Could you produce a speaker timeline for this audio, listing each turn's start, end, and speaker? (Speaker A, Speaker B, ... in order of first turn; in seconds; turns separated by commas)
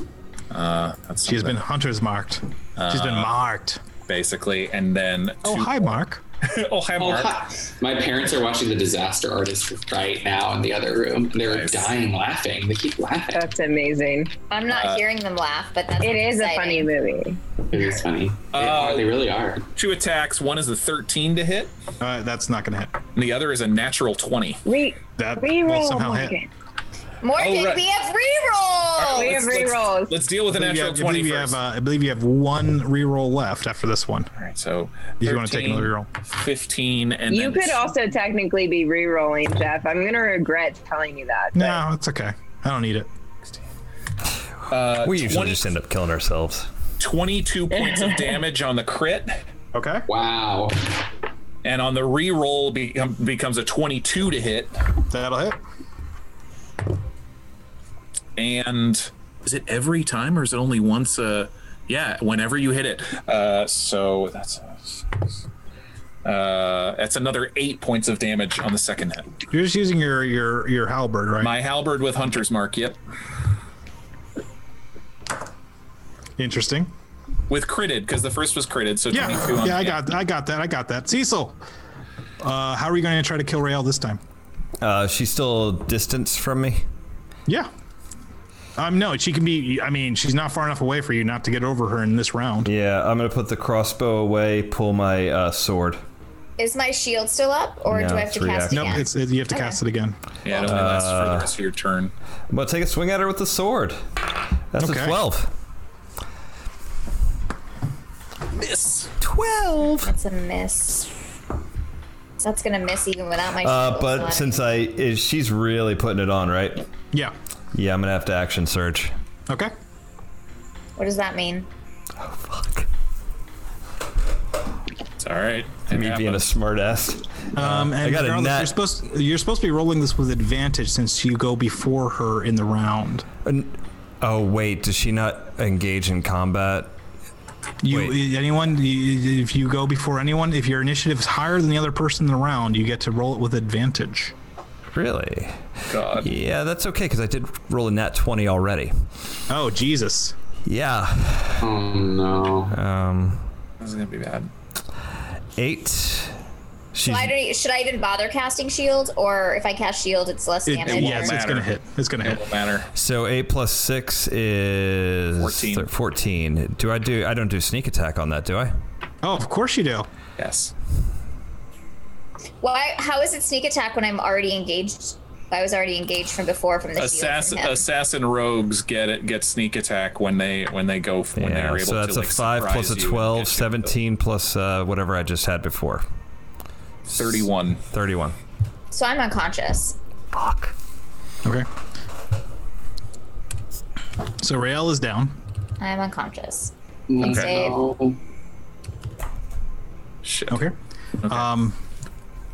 Speaker A: 0.5-1.6, Speaker B: 1.3-3.8, Speaker A: 2.8-3.3, Speaker A: 4.1-7.4, Speaker B: 5.4-6.2, Speaker C: 7.0-13.4, Speaker A: 11.4-11.9, Speaker D: 13.3-14.3, Speaker E: 14.5-16.9, Speaker A: 14.7-15.0, Speaker D: 16.0-17.4, Speaker C: 17.7-19.7, Speaker A: 18.5-19.1, Speaker A: 19.8-21.7, Speaker B: 22.0-23.0, Speaker A: 23.1-24.6, Speaker D: 24.6-26.5, Speaker B: 25.2-26.4, Speaker E: 27.2-29.4, Speaker A: 27.4-27.9, Speaker A: 29.0-31.6, Speaker D: 29.1-30.2, Speaker B: 30.5-34.3, Speaker A: 34.4-37.9, Speaker B: 35.2-36.1, Speaker D: 37.3-41.8, Speaker B: 41.5-43.1, Speaker A: 44.7-45.7, Speaker F: 45.0-46.7, Speaker A: 47.0-49.4, Speaker D: 47.8-48.2, Speaker B: 49.7-50.1, Speaker C: 50.1-50.9, Speaker A: 51.6-54.8, Speaker B: 55.1-55.6, Speaker A: 58.4-65.4, Speaker A: 66.2-69.3, Speaker B: 69.5-71.5, Speaker A: 71.4-73.0, Speaker B: 76.4-76.9, Speaker A: 77.5-80.0, Speaker B: 79.1-81.6, Speaker B: 82.4-84.2, Speaker F: 84.8-86.8, Speaker B: 88.8-92.7, Speaker F: 92.6-96.0, Speaker E: 96.6-99.8, Speaker F: 97.9-99.0, Speaker B: 98.7-100.2, Speaker A: 100.4-102.1, Speaker F: 100.5-101.5, Speaker F: 102.5-104.0, Speaker F: 104.7-105.5, Speaker B: 104.8-105.2, Speaker A: 108.5-109.1, Speaker F: 109.2-110.1, Speaker E: 110.0-111.1, Speaker E: 112.4-114.7, Speaker F: 113.6-116.9, Speaker F: 117.7-119.1, Speaker E: 121.0-121.7, Speaker F: 122.2-122.9, Speaker A: 125.2-126.5, Speaker F: 125.9-128.8, Speaker B: 127.6-133.3, Speaker F: 133.4-137.0, Speaker B: 137.8-144.3, Speaker F: 137.9-138.2, Speaker F: 144.9-148.9, Speaker A: 145.9-146.3, Speaker B: 149.5-150.3, Speaker F: 150.7-151.7, Speaker C: 151.6-152.8, Speaker F: 152.7-153.5, Speaker A: 153.8-154.5, Speaker F: 155.6-156.4, Speaker F: 156.9-157.3, Speaker E: 157.0-161.3, Speaker B: 160.7-162.4, Speaker A: 160.9-162.9, Speaker F: 162.9-168.7, Speaker A: 165.4-165.9, Speaker B: 169.2-170.1, Speaker A: 170.4-170.7, Speaker E: 172.6-177.8, Speaker A: 177.0-183.9, Speaker F: 181.4-186.1, Speaker A: 187.1-187.8, Speaker F: 187.9-188.4, Speaker E: 188.9-190.0, Speaker F: 190.3-190.7, Speaker B: 194.4-195.4, Speaker E: 195.8-197.8, Speaker C: 197.1-198.2, Speaker A: 197.2-197.6, Speaker A: 200.2-200.7, Speaker B: 200.5-200.8, Speaker A: 201.2-201.5, Speaker B: 201.3-201.8